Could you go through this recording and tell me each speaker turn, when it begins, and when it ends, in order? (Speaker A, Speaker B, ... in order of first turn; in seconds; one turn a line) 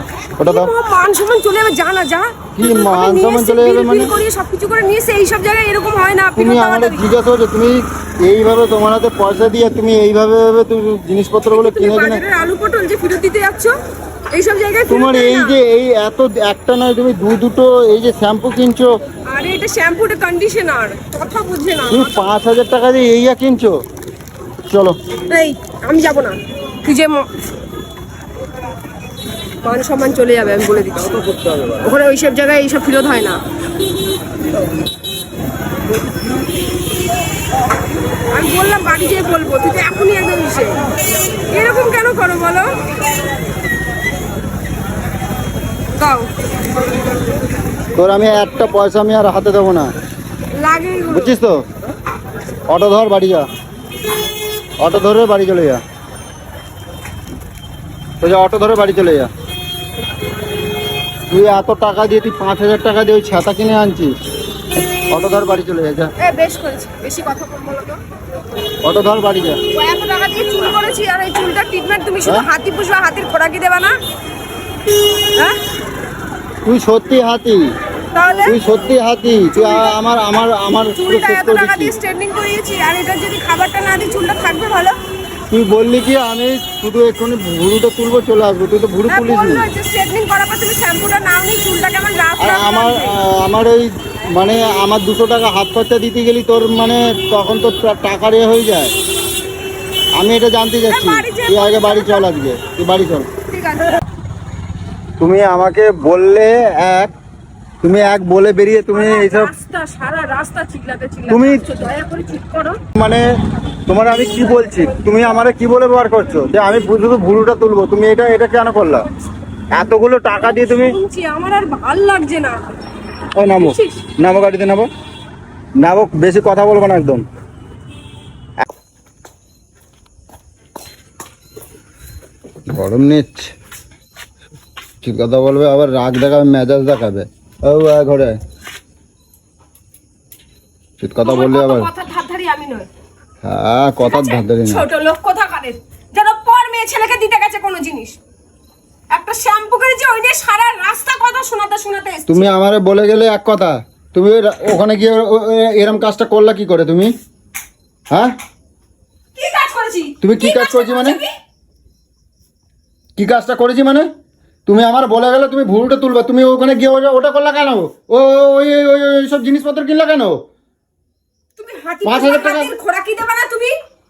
Speaker A: 0.4-0.7
Speaker B: 0.4-7.0
Speaker A: 2.5-4.1
Speaker A: 6.3-12.2
Speaker B: 11.5-13.8
Speaker B: 14.3-15.6
Speaker A: 14.9-18.9
Speaker B: 19.3-22.2
Speaker A: 21.9-23.8
Speaker A: 24.7-24.9
Speaker B: 25.3-27.3
Speaker B: 29.6-33.4
Speaker B: 38.3-40.9
Speaker B: 41.5-42.8
Speaker B: 46.0-46.3
Speaker A: 47.9-49.9
Speaker B: 50.5-51.4
Speaker A: 51.1-51.6
Speaker A: 52.7-53.5
Speaker A: 54.8-55.8
Speaker A: 58.2-59.3
Speaker A: 61.3-64.2
Speaker A: 65.1-66.1
Speaker B: 66.2-68.0
Speaker A: 68.8-69.6
Speaker B: 69.7-73.9
Speaker A: 76.6-77.7
Speaker B: 78.1-78.6
Speaker A: 78.4-81.9
Speaker B: 79.5-80.0
Speaker B: 80.9-85.0
Speaker A: 85.5-89.7
Speaker B: 89.1-93.1
Speaker A: 92.4-98.9
Speaker A: 100.2-103.3
Speaker B: 100.9-102.3
Speaker B: 103.5-104.0
Speaker A: 105.2-107.1
Speaker A: 107.8-109.5
Speaker B: 108.9-112.8
Speaker A: 111.3-111.6
Speaker A: 112.9-113.2
Speaker A: 113.9-119.1
Speaker A: 119.7-121.0
Speaker B: 120.4-122.7
Speaker A: 123.4-124.9
Speaker B: 123.6-124.1
Speaker A: 125.8-127.2
Speaker A: 132.7-133.5
Speaker A: 135.0-138.4
Speaker A: 141.0-141.9
Speaker B: 141.2-142.9
Speaker A: 143.4-144.8
Speaker B: 144.0-148.2
Speaker B: 149.1-152.5
Speaker A: 152.3-157.1
Speaker B: 159.4-161.3
Speaker A: 160.2-161.2
Speaker A: 163.2-164.1
Speaker A: 164.7-170.4
Speaker B: 171.6-173.7
Speaker A: 172.1-172.7